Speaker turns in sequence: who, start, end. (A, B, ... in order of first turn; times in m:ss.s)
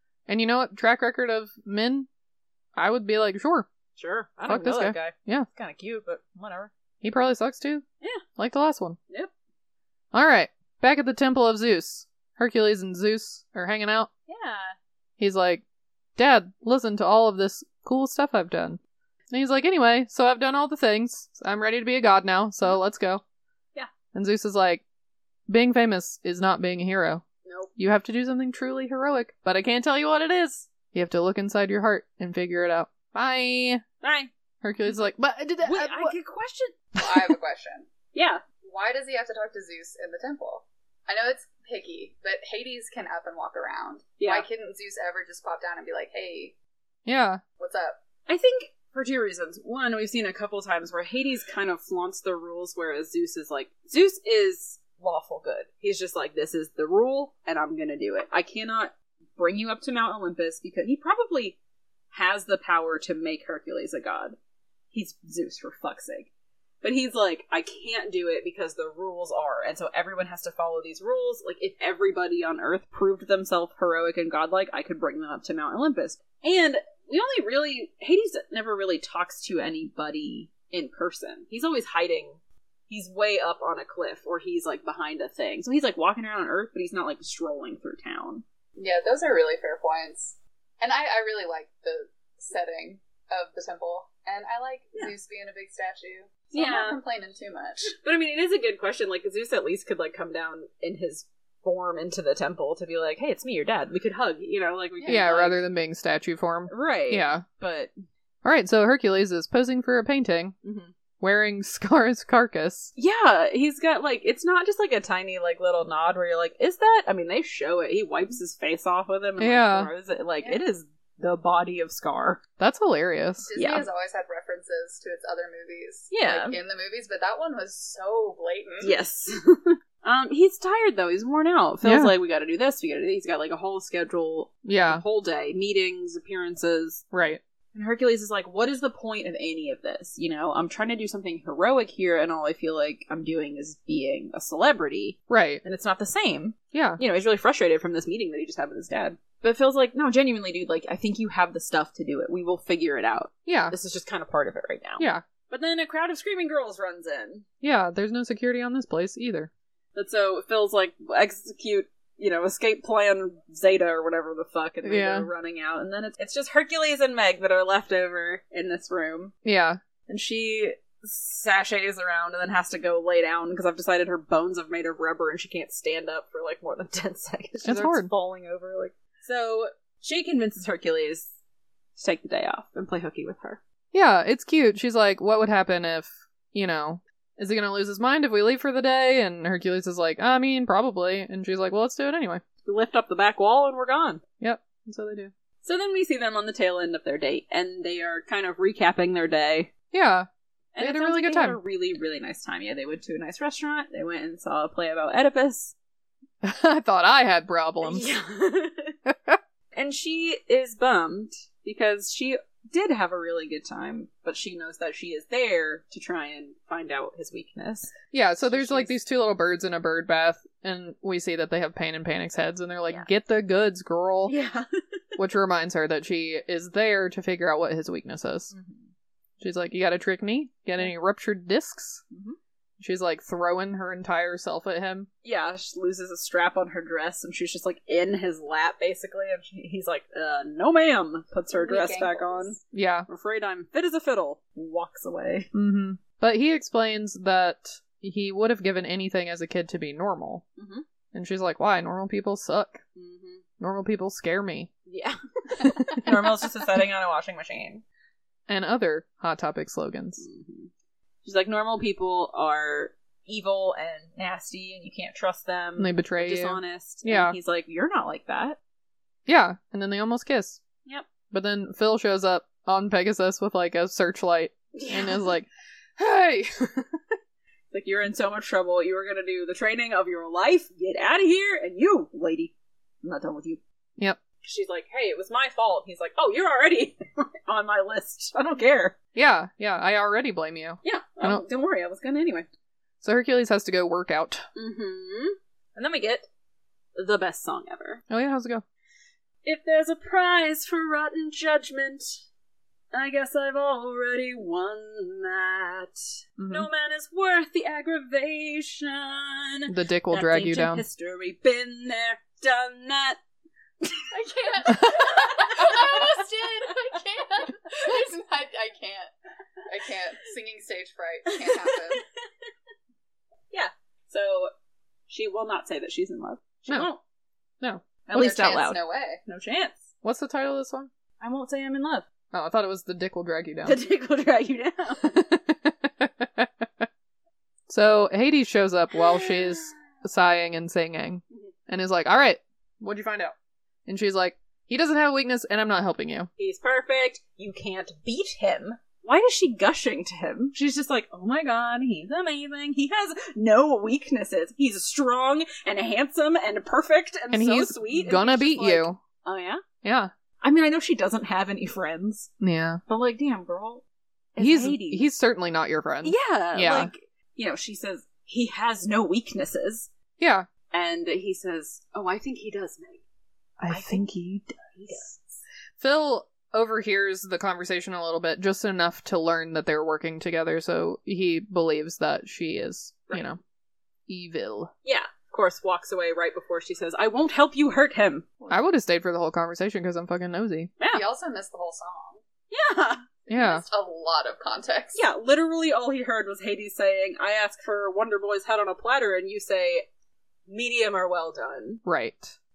0:00.3-0:02.1 A
0:02.8-0:03.7 A
0:04.0-0:06.7 B
0:04.5-0:05.5 A
0:07.0-0:07.8 A
0:08.4-0:09.0 A
0:10.1-0:14.1 A
0:14.3-0:14.8 B
0:15.2-0:15.6 A
0:16.2-0:18.8 A
0:19.3-0:23.2 A
0:24.1-0:24.8 A
0:25.5-0:27.2 A
0:27.4-0:27.7 B
0:27.8-0:33.8 A
0:34.0-0:34.3 B
0:34.6-0:36.1 A
0:35.6-0:36.8 B
0:37.0-0:37.9 C
0:37.0-0:37.3 A
0:38.1-0:38.4 B
0:38.5-0:46.5 C
0:44.2-0:44.4 B
0:47.0-0:47.4 A
0:47.6-0:48.0 C
0:48.3-1:01.6 B
1:02.1-1:04.4 B
1:04.9-1:06.3 B
1:06.8-1:28.4 B
1:28.8-1:37.9 C
1:36.5-1:37.0 B
1:37.9-1:45.6 B
1:45.0-1:45.3 C
1:45.1-1:47.4 A
1:46.7-1:47.9 B
1:48.4-1:50.6 A
1:50.6-1:50.9 B
1:51.2-1:52.9 A
1:53.0-2:02.4 B
1:59.4-1:59.9 A
2:02.6-2:03.5 A
2:03.4-2:08.9 C
2:03.6-2:03.8 B
2:06.1-2:06.6 B
2:08.8-2:17.0 B
2:11.8-2:12.1 A
2:14.6-2:15.0 A
2:17.1-2:17.4 A
2:17.7-2:37.4 B
2:25.3-2:25.6 A
2:26.7-2:27.0 A
2:33.5-2:33.7 A
2:37.6-2:39.5 A
2:39.9-2:49.3 B
2:44.8-2:45.3 A
2:49.4-2:49.8 A
2:50.1-3:01.3 B
2:57.6-2:58.1 A
3:02.0-3:03.6 B
3:03.9-3:12.4 A
3:12.6-3:14.2 B
3:14.4-3:15.3 A
3:15.6-3:19.7 B
3:19.9-3:20.3 A
3:20.7-3:25.7 B
3:20.8-3:21.6 A
3:26.4-3:28.1 A
3:27.8-3:29.0 B
3:29.1-3:29.4 A
3:29.7-3:38.9 B
3:38.1-3:44.3 A
3:44.2-3:45.1 B
3:45.2-3:48.5 A
3:48.5-3:48.9 B
3:49.4-3:52.0 A
3:52.1-3:52.4 B
3:52.8-3:55.1 A
3:55.2-4:05.5 B
4:01.5-4:02.6 C
4:02.7-4:03.1 A
4:05.5-4:10.4 A
4:10.6-4:10.8 B
4:11.1-4:12.8 A
4:12.9-4:13.4 B
4:13.6-4:14.7 A
4:14.9-4:17.8 B
4:15.6-4:16.4 A
4:18.5-4:20.2 A
4:20.2-4:20.7 B
4:21.2-4:28.6 B
4:25.8-4:27.4 A
4:29.3-4:30.6 A
4:31.3-4:37.2 A
4:34.7-4:35.3 B
4:37.7-4:43.6 B
4:44.4-4:48.9 B
4:49.1-4:51.4 A
4:50.8-4:52.5 B
4:53.0-4:54.4 A
4:54.5-4:56.3 B
4:56.9-4:58.0 B
4:58.1-4:58.6 A
4:59.4-5:02.2 B
5:02.9-5:06.0 B
5:06.4-5:06.7 A
5:06.5-5:13.2 B
5:09.7-5:10.8 A
5:13.8-5:16.8 B
5:14.1-5:19.1 C
5:19.6-5:22.0 C
5:21.3-5:22.0 B
5:23.5-5:24.5 B
5:25.1-5:27.0 B
5:28.1-5:29.9 B
5:28.1-5:29.2 C
5:30.0-5:30.9 A
5:31.2-5:32.0 B
5:32.3-5:33.8 A
5:33.6-5:35.0 B
5:35.0-5:36.9 A
5:37.7-5:43.3 A
5:39.0-5:39.8 B
5:43.9-5:46.3 A
5:46.4-5:59.6 B
5:57.3-5:59.0 A
5:59.8-6:00.1 A
6:00.4-6:02.3 B
6:02.4-6:02.8 A
6:02.9-6:03.8 B
6:04.3-6:05.0 B
6:04.4-6:06.9 A
6:06.0-6:09.9 B
6:10.2-6:10.5 A
6:10.7-6:13.0 B
6:13.6-6:14.6 A
6:13.7-6:14.1 B
6:14.7-6:15.4 B
6:15.8-6:23.4 A
6:24.1-6:24.7 A
6:24.8-6:28.6 B
6:28.5-6:30.7 A
6:30.8-6:31.0 B
6:30.9-6:32.2 C
6:32.5-6:33.0 B
6:33.3-6:35.0 C
6:33.3-6:33.6 A
6:34.9-6:39.8 B
6:40.5-6:41.8 B
6:41.8-6:42.4 A